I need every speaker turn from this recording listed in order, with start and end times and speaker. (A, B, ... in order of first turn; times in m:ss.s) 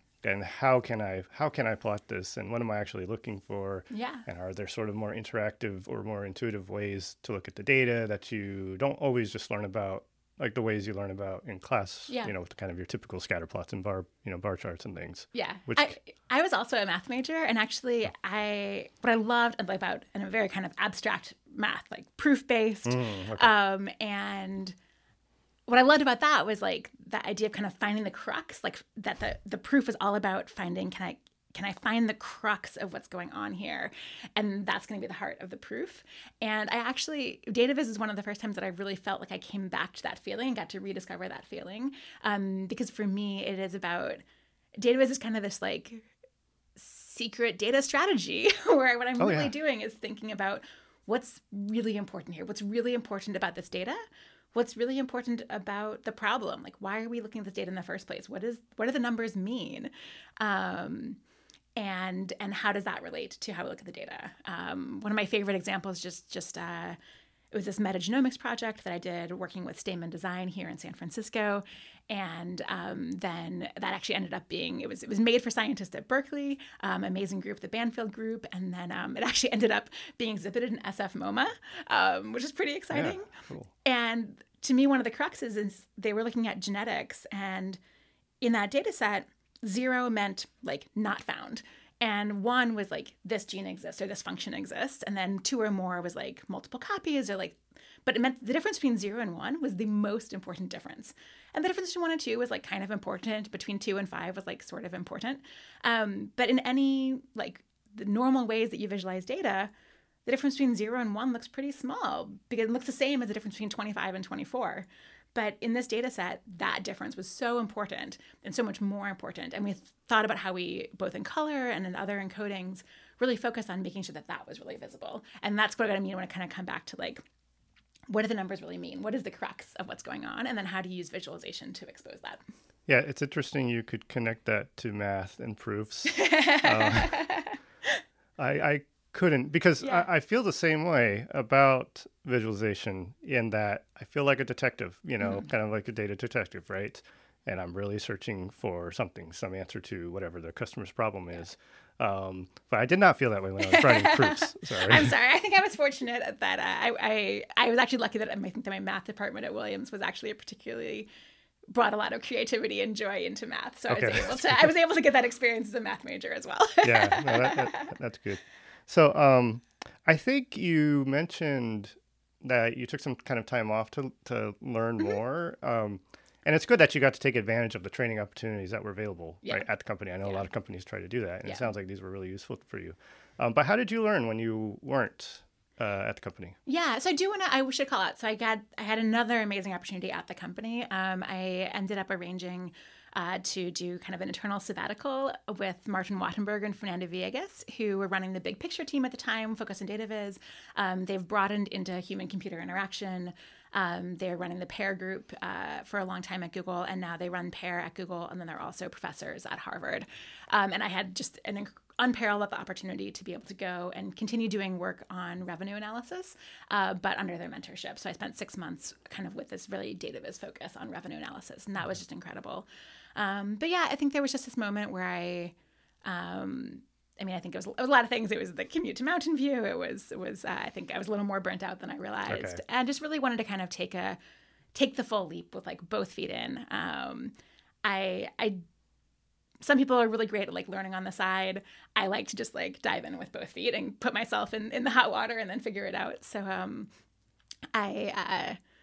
0:00.2-0:15.9 A
0:03.9-0:04.3 B
0:12.1-0:12.3 B
0:15.3-0:24.8 B
0:22.8-0:23.5 A
0:25.7-0:44.2 B
0:44.8-0:46.1 B
0:46.8-0:54.0 B
0:49.2-0:49.5 A
0:54.5-1:01.2 B
1:01.8-1:07.0 B
1:07.5-1:23.3 B
1:22.9-1:23.7 A
1:23.8-1:27.8 B
1:28.4-1:49.7 B
1:50.2-2:07.2 B
2:08.1-2:12.4 B
2:12.9-2:17.2 A
2:16.1-2:17.6 B
2:18.4-2:35.1 A
2:19.8-2:20.1 B
2:25.2-2:25.5 B
2:33.6-2:41.1 B
2:41.7-2:47.9 B
2:43.9-2:44.7 A
2:46.8-3:06.6 A
3:00.2-3:00.5 B
3:01.4-3:01.7 B
3:06.7-3:54.2 B
3:52.3-3:52.6 A
3:54.8-3:58.6 B
3:59.6-4:06.9 B
4:07.7-4:08.6 B